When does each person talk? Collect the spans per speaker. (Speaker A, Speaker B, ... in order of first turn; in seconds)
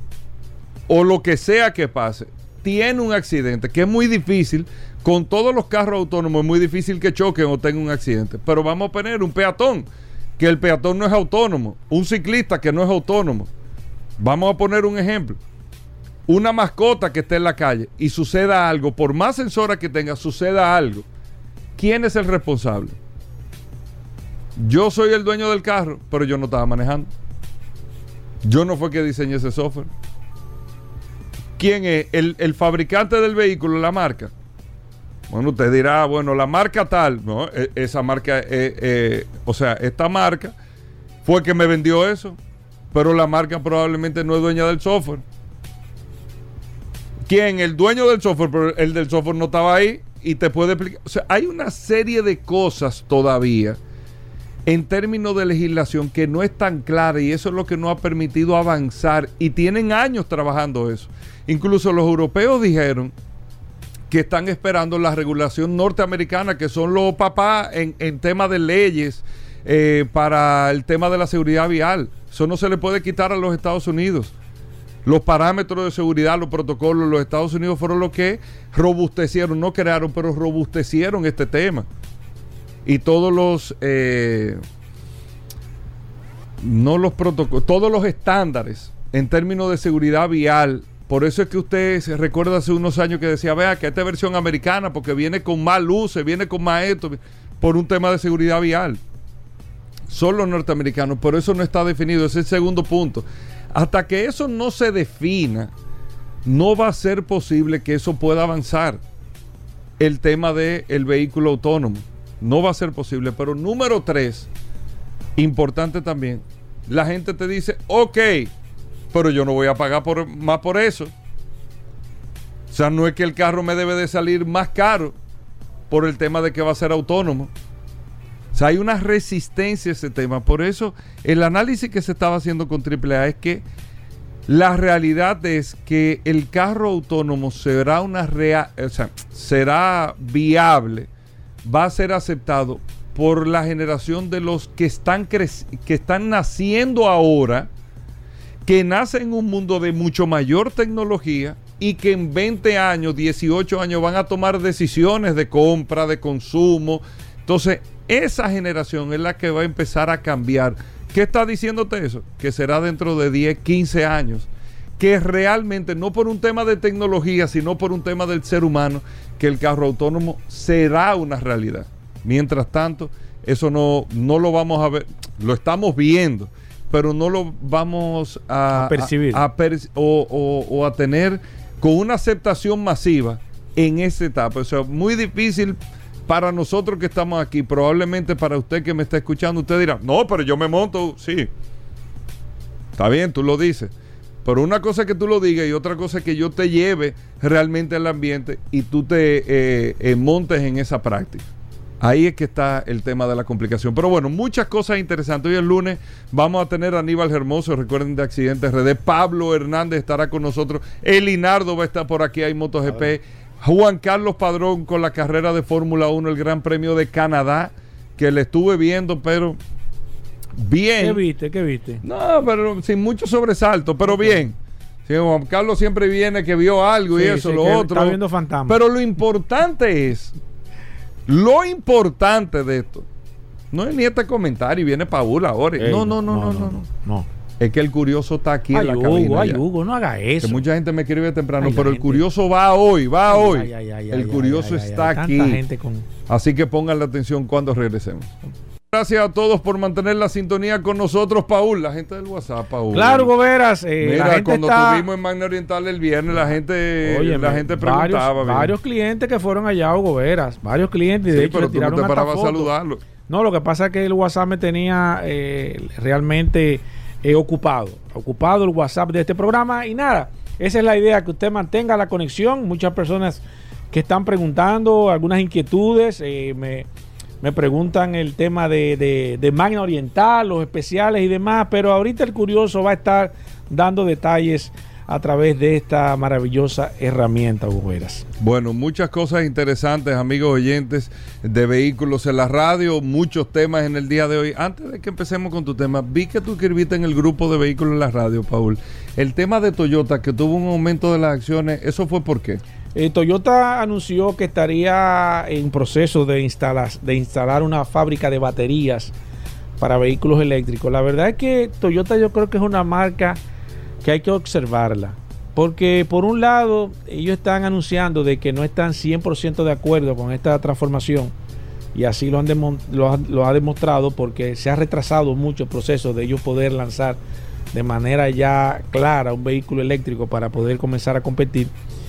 Speaker A: 0.9-13.5, 14.2-15.4, 16.3-21.1, 21.8-22.9, 24.6-27.1, 28.4-29.9, 31.6-34.3, 35.3-40.5, 41.2-42.4, 42.9-45.2, 47.2-53.8, 54.6-63.1, 64.1-74.3, 75.0-81.9, 82.8-84.6, 86.6-99.0, 100.1-105.7, 106.4-109.0, 110.0-114.5, 115.3-118.5, 119.1-121.1, 122.7-125.2, 125.9-127.5, 128.5-133.6, 134.5-141.1, 141.6-147.7, 148.6-191.5, 192.9-193.9, 194.4-201.5, 202.0-219.6, 220.6-221.2, 222.0-224.6, 225.1-230.3, 231.3-233.1, 233.7-236.8, 237.6-239.6, 240.4-245.6, 246.3-248.3, 248.9-253.3, 254.0-258.7, 261.3-263.0, 288.4-302.6
Speaker B: 178.7-179.4, 221.0-222.0, 224.0-224.4, 227.1-228.8, 235.8-237.3, 238.7-240.6, 241.6-242.2, 243.3-246.1, 252.9-255.1, 257.0-262.7, 263.3-273.4, 273.9-276.9, 277.4-288.2, 302.9-309.1, 309.8-313.4, 314.0-321.3, 321.9-327.2, 327.7-331.7